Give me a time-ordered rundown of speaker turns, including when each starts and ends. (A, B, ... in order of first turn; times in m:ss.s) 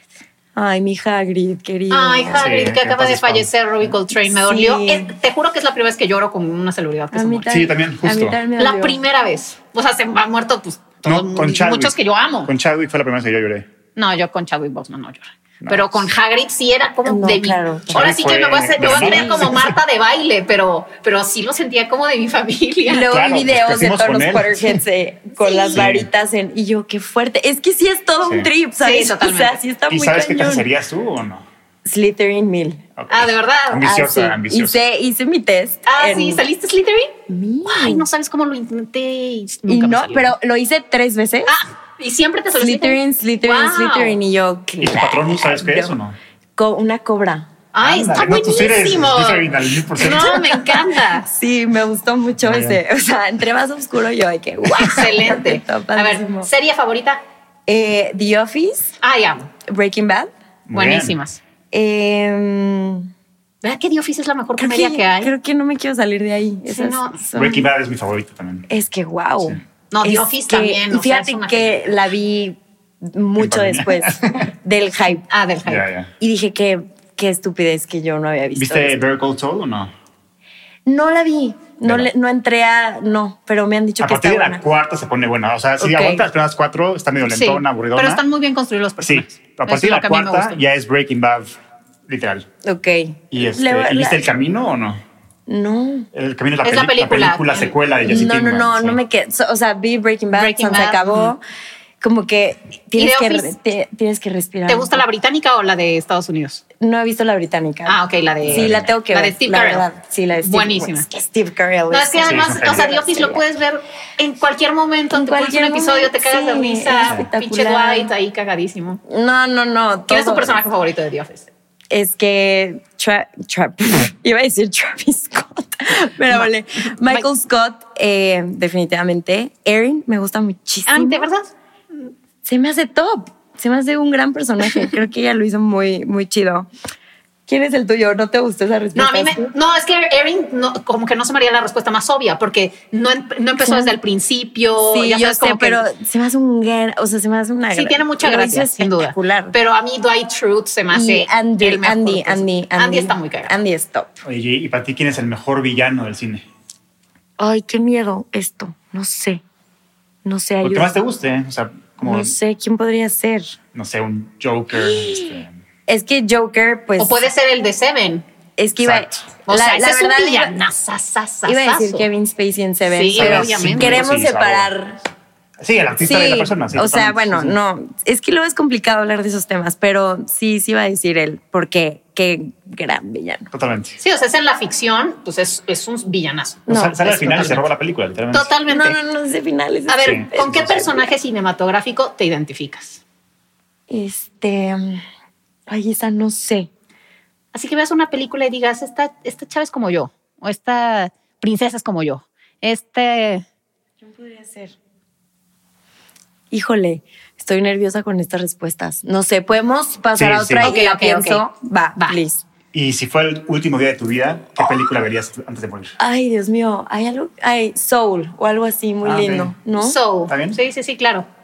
0:00.5-0:02.7 A
0:01.9-0:07.5 B
0:02.3-0:03.9 C
0:04.3-0:05.1 A
0:07.1-0:09.0 A
0:07.5-0:08.4 C
0:08.6-0:12.5 B
0:11.0-0:13.6 C
0:14.0-0:23.1 B
0:15.6-0:16.1 C
0:17.0-0:18.2 A
0:17.9-0:19.8 C
0:18.8-0:19.6 A
0:22.8-0:30.7 A
0:23.1-0:24.8 C
0:25.4-0:25.8 B
0:25.7-0:26.1 C
0:28.8-0:29.6 B
0:29.9-0:31.4 C
0:31.8-0:32.8 A
0:33.0-0:34.8 C
0:33.1-0:33.9 B
0:33.8-0:36.4 A
0:35.8-0:40.3 B
0:37.3-0:38.1 A
0:39.7-0:41.5 A
0:41.4-0:44.2 B
0:42.5-0:45.9 A
0:44.8-0:46.2 C
0:46.6-0:47.5 A
0:47.7-0:51.3 B
0:47.8-0:50.7 C
0:51.1-0:56.5 A
0:52.4-0:52.8 C
0:54.8-0:57.2 B
0:57.7-0:58.9 A
0:59.0-0:59.5 B
0:59.6-1:00.3 A
1:00.7-1:01.2 C
1:00.7-1:01.4 B
1:01.7-1:03.1 A
1:03.6-1:05.3 B
1:04.6-1:07.7 A
1:06.7-1:07.2 B
1:07.3-1:08.7 C
1:08.7-1:15.3 A
1:09.9-1:11.9 B
1:13.4-1:14.5 C
1:15.3-1:15.8 B
1:15.6-1:16.1 C
1:16.2-1:19.0 A
1:18.5-1:19.9 C
1:20.8-1:24.6 A
1:21.8-1:22.1 C
1:24.0-1:28.2 C
1:25.8-1:26.2 A
1:27.2-1:30.6 B
1:29.0-1:31.6 C
1:32.1-1:32.5 C
1:32.6-1:34.2 A
1:33.3-1:35.0 C
1:35.5-1:36.1 A
1:36.1-1:39.0 C
1:36.6-1:37.7 B
1:38.0-1:41.4 A
1:40.3-1:41.3 B
1:42.0-1:45.0 A
1:42.9-1:43.5 B
1:44.7-1:46.6 B
1:46.8-1:53.4 A
1:47.8-1:49.9 B
1:48.5-1:48.9 C
1:50.4-1:51.1 B
1:51.9-1:59.0 B
1:52.2-1:52.8 C
1:55.1-1:58.1 A
1:59.0-2:00.6 A
2:00.1-2:01.4 B
2:01.9-2:11.3 A
2:10.9-2:11.5 B
2:12.4-2:16.7 A
2:17.5-2:19.5 A
2:18.9-2:25.8 B
2:23.6-2:24.0 A
2:24.8-2:29.5 A
2:27.7-2:33.5 B
2:30.9-2:34.1 A
2:34.2-2:36.4 C
2:37.4-2:39.4 A
2:40.2-2:40.9 A
2:40.6-2:42.3 C
2:42.0-2:43.6 A
2:43.7-2:45.5 C
2:44.7-2:47.2 A
2:47.0-2:48.2 B
2:48.6-2:50.6 A
2:48.8-2:49.3 C
2:49.5-2:52.1 B
2:51.4-2:55.0 A
2:52.9-2:54.0 B
2:53.2-2:54.7 C
2:55.6-2:57.5 C
2:56.0-3:03.5 A
3:03.5-3:04.0 C
3:04.0-3:07.6 B
3:06.7-3:07.6 A
3:06.7-3:08.5 C
3:08.3-3:09.0 B
3:08.7-3:11.1 A
3:09.9-3:13.0 B
3:10.0-3:10.8 C
3:13.9-3:15.0 A
3:15.7-3:16.7 A
3:17.5-3:23.4 B
3:24.0-3:24.7 A
3:26.5-3:32.4 A
3:30.1-3:30.7 C
3:30.6-3:31.4 B
3:32.7-3:36.0 C
3:36.0-3:40.0 A
3:39.0-3:39.5 C
3:39.7-3:41.3 B
3:40.3-3:40.6 C